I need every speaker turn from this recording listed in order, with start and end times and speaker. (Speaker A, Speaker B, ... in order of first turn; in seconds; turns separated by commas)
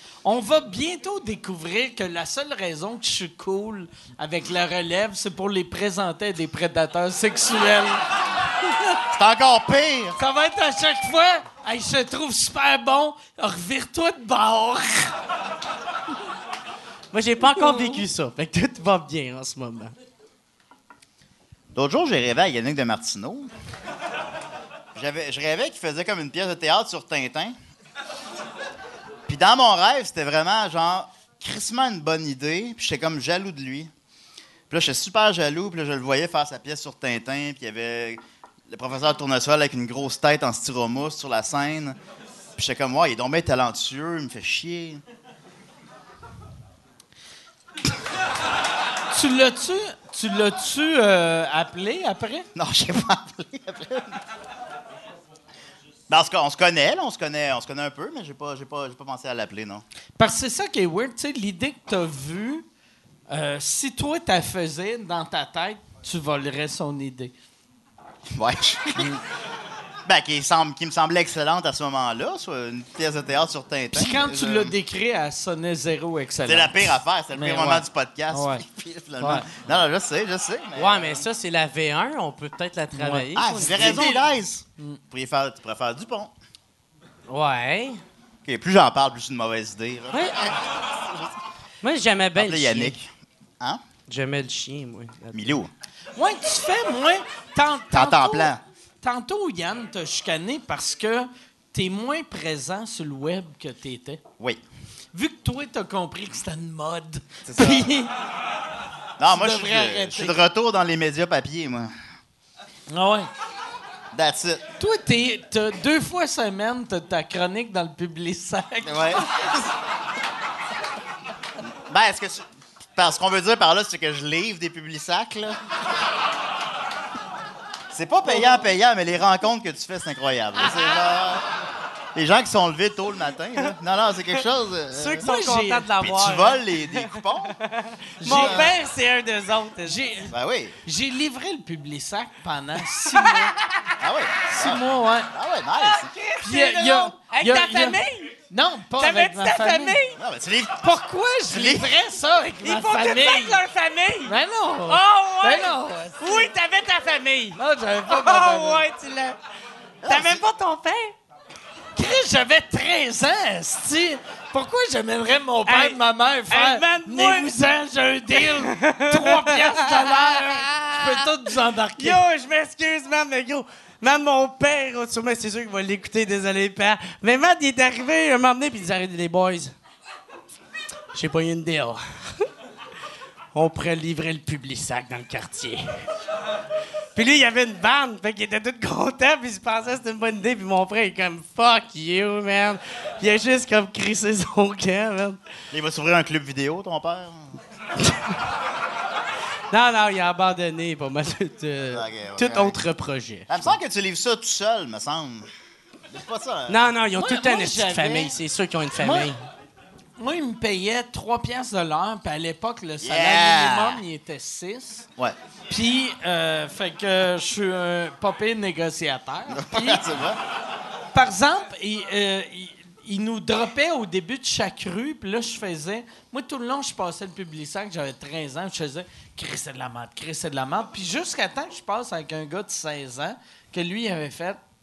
Speaker A: 0.2-8.0, Speaker B: 9.1-10.2, Speaker A: 10.2-15.1, Speaker C: 17.1-19.9, Speaker B: 21.7-23.5, Speaker B: 24.9-27.6, Speaker B: 29.3-33.9, Speaker B: 34.7-42.0, Speaker B: 42.6-45.0, Speaker A: 49.1-52.5, Speaker B: 52.5-54.2, Speaker B: 56.1-59.8, Speaker A: 60.2-62.7, Speaker A: 63.3-67.3, Speaker B: 68.3-69.2, Speaker B: 70.1-74.7, Speaker A: 73.9-78.6, Speaker B: 76.5-81.2, Speaker A: 79.2-79.5, Speaker C: 80.8-84.1, Speaker A: 82.9-84.3, Speaker B: 83.3-86.3, Speaker C: 87.3-88.0, Speaker B: 88.5-91.3, Speaker C: 90.1-90.4, Speaker C: 91.8-92.9, Speaker B: 92.4-93.8, Speaker C: 94.1-95.6, Speaker B: 95.3-95.7, Speaker A: 96.2-104.2, Speaker B: 97.9-98.6, Speaker A: 105.1-108.1, Speaker B: 107.5-107.9, Speaker B: 109.2-111.9, Speaker A: 109.3-110.4, Speaker A: 112.9-113.3, Speaker B: 114.1-114.6, Speaker A: 114.8-119.3, Speaker B: 118.8-119.7, Speaker B: 121.9-125.6, Speaker B: 127.9-131.5, Speaker B: 132.2-135.3, Speaker C: 134.9-140.1, Speaker A: 135.2-135.9, Speaker B: 136.0-137.6, Speaker A: 138.2-138.8, Speaker B: 138.3-138.7, Speaker A: 139.8-140.3, Speaker B: 140.3-140.8, Speaker A: 140.8-143.6, Speaker C: 143.1-143.5, Speaker B: 144.0-146.1, Speaker A: 144.5-145.3, Speaker C: 145.8-148.3, Speaker A: 146.4-148.0, Speaker A: 148.5-150.0, Speaker C: 149.0-150.2, Speaker B: 150.2-150.9, Speaker A: 150.8-153.6, Speaker B: 151.5-151.9, Speaker C: 152.6-154.4, Speaker A: 154.3-156.5, Speaker C: 154.9-159.4, Speaker A: 157.6-158.8, Speaker B: 160.0-160.4, Speaker C: 160.1-161.2, Speaker A: 162.0-172.2, Speaker C: 165.7-166.0, Speaker C: 166.5-167.5, Speaker C: 168.3-171.3, Speaker C: 172.0-179.7, Speaker C: 181.1-182.5, Speaker C: 183.5-185.9, Speaker C: 187.2-195.4, Speaker B: 195.7-197.6, Speaker C: 199.7-203.8, Speaker B: 201.9-202.8, Speaker B: 203.5-205.5, Speaker B: 206.1-206.8, Speaker C: 206.7-209.4, Speaker A: 207.2-208.3, Speaker A: 209.0-209.3, Speaker A: 210.2-215.1, Speaker B: 213.0-214.0, Speaker A: 215.7-220.1, Speaker B: 219.5-220.4, Speaker A: 221.1-234.6